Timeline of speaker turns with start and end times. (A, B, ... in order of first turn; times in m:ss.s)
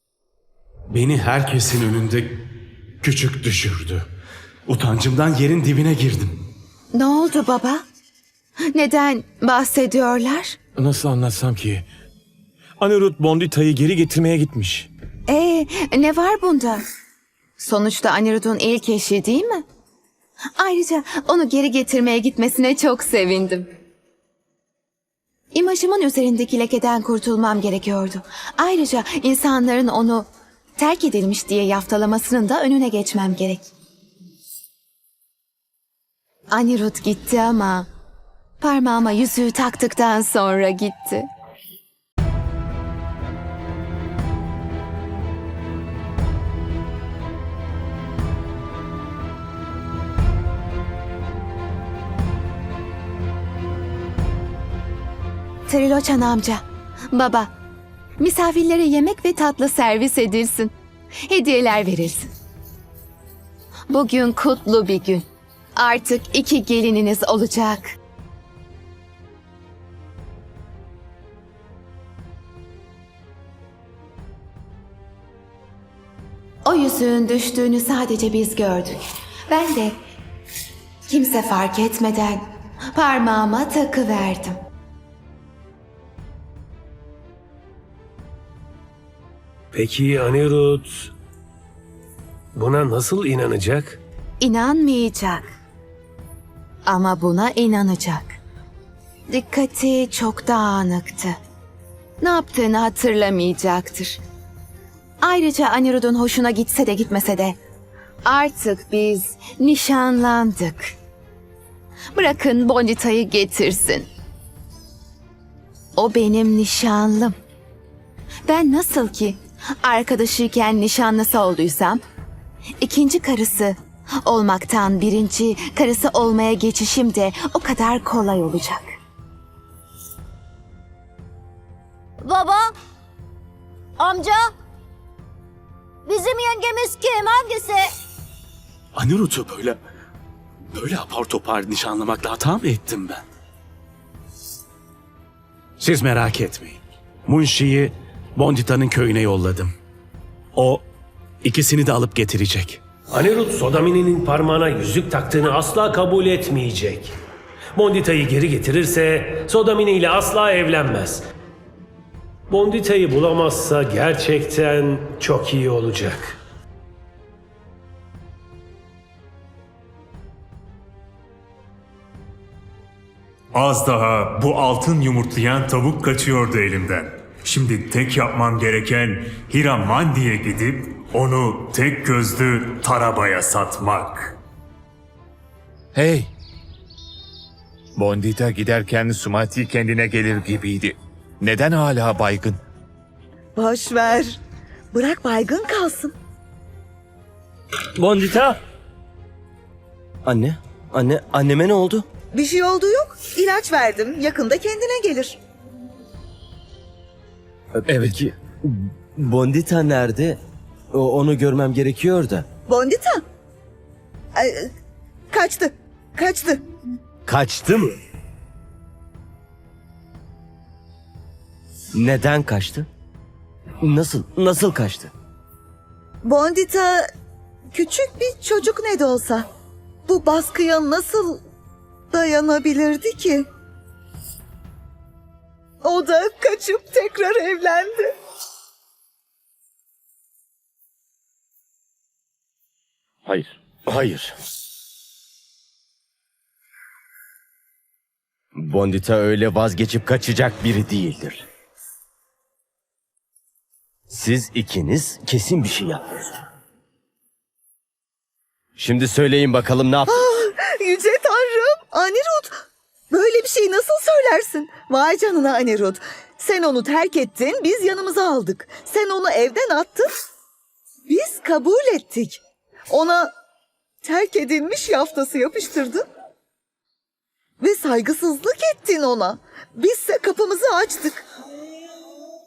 0:00.9-0:02.4 A
0:03.0-0:04.0 A
0:04.7-0:06.4 A
0:06.9-0:07.8 B
0:08.7-0:10.6 B
0:10.8-0:11.8 A
0:12.8-0:14.9 A
0:15.3-0:16.8 B
0:17.6-0:19.6 B
0:20.6-0:23.7 B
0:25.5-0:33.7 B
0:36.5-0:37.9 B
0:38.6-0:41.3 B
0:55.7-0:57.5 B
0:58.2-1:02.3 B
1:03.9-1:05.2 B
1:05.8-1:07.9 B
1:16.6-1:20.0 B
1:21.1-1:24.6 B
1:29.7-1:31.1 C
1:32.5-1:34.0 C
1:34.4-1:35.5 B
1:36.8-1:38.4 B
1:39.3-1:41.4 B
1:42.2-1:44.2 B
1:45.2-1:47.6 B
1:48.2-1:50.9 B
1:52.1-1:54.1 B
1:56.0-1:57.3 B
1:58.4-2:02.0 B
2:02.8-2:08.9 B
2:12.2-2:12.7 D
2:14.0-2:14.5 D
2:16.0-2:17.8 D
2:19.0-2:19.8 A
2:20.7-2:23.2 A
2:25.8-2:29.7 A
2:30.5-2:30.8 A
2:31.4-2:32.8 A
2:33.1-2:37.1 C
2:37.7-2:41.2 C
2:42.5-2:46.4 C
2:53.5-3:04.4 E
3:05.9-3:06.3 F
3:08.0-3:12.6 F
3:13.6-3:14.4 G
3:14.9-3:16.1 G
3:18.0-3:18.6 H
3:20.2-3:22.0 H
3:22.3-3:25.4 G
3:27.7-3:30.4 H
3:30.9-3:32.5 H
3:32.7-3:33.2 G
3:34.4-3:34.7 G
3:35.3-3:36.6 G
3:37.3-3:38.0 H
3:41.9-3:42.9 H
3:43.8-3:45.1 H
3:46.2-3:47.0 G
3:47.7-3:49.5 G
3:50.0-3:51.4 G
3:52.1-3:53.4 G
3:55.8-3:58.1 G
4:03.2-4:04.3 H
4:08.5-4:11.4 H
4:14.1-4:16.4 H
4:18.8-4:20.3 H
4:20.1-4:30.1 G
4:31.1-4:32.4 G
4:32.9-4:33.3 G
4:34.0-4:36.0 G
4:37.6-4:41.2 G